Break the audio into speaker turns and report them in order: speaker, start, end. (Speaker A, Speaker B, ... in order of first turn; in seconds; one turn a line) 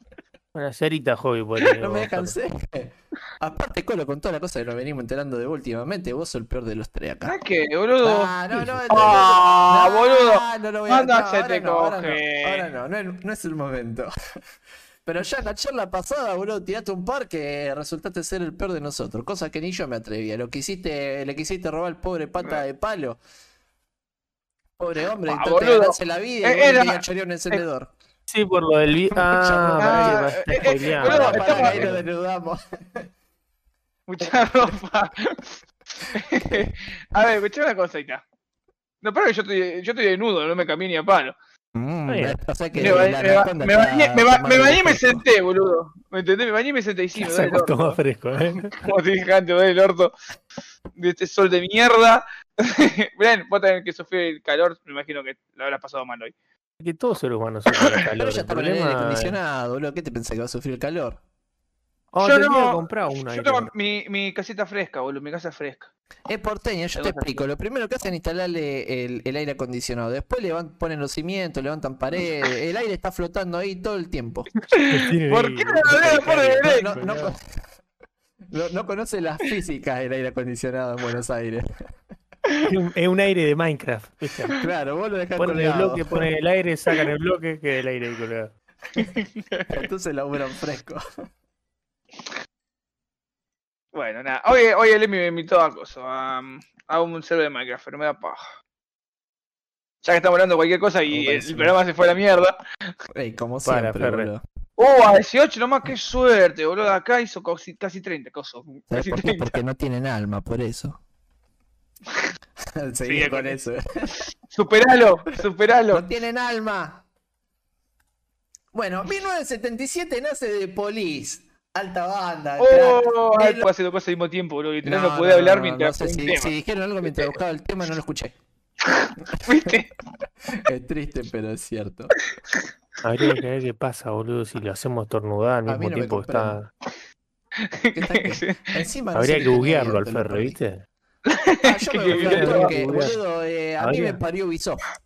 Speaker A: 0.5-2.3
Speaker B: 1.8-7.4
Speaker C: 7.3-8.4
Speaker B: 8.0-14.1
Speaker A: 8.5-8.8
Speaker C: 8.9-12.7
Speaker B: 15.1-23.2
Speaker B: 24.8-27.9
Speaker C: 25.3-27.6
Speaker A: 28.3-32.0
Speaker B: 29.1-33.1
Speaker C: 29.8-32.0
Speaker C: 34.1-38.2
Speaker B: 36.4-36.7
Speaker C: 39.0-41.4
Speaker B: 41.7-45.2
Speaker A: 42.1-42.4
Speaker C: 42.8-48.0
Speaker A: 47.2-48.8
Speaker C: 48.7-50.1
Speaker C: 51.0-56.3
Speaker A: 56.8-59.4
Speaker B: 58.2-61.2
Speaker A: 62.1-63.7
Speaker C: 62.2-65.9
Speaker B: 66.3-74.5
Speaker C: 67.0-67.4
Speaker A: 74.7-77.3
Speaker C: 74.7-77.0
Speaker B: 76.0-77.6
Speaker B: 78.5-81.7
Speaker A: 82.7-84.6
Speaker B: 84.5-86.2
Speaker A: 85.4-88.5
Speaker C: 89.0-89.7
Speaker B: 89.7-91.0
Speaker C: 93.9-98.5
Speaker C: 100.0-102.6
Speaker B: 101.1-101.8
Speaker B: 103.1-104.4
Speaker A: 103.7-104.3
Speaker C: 104.8-109.6
Speaker B: 108.9-111.0
Speaker B: 112.7-114.2
Speaker C: 113.1-113.6
Speaker C: 114.5-116.0
Speaker B: 115.9-117.0
Speaker B: 118.7-123.7
Speaker C: 122.6-126.5
Speaker B: 124.8-128.4
Speaker C: 128.8-129.9
Speaker B: 129.3-129.7
Speaker B: 130.5-132.2
Speaker A: 133.0-136.7
Speaker B: 135.7-136.6
Speaker C: 137.6-138.8
Speaker B: 137.9-140.6
Speaker A: 139.2-140.8
Speaker C: 141.3-142.7
Speaker B: 141.6-144.9
Speaker A: 142.1-143.2
Speaker A: 143.8-144.2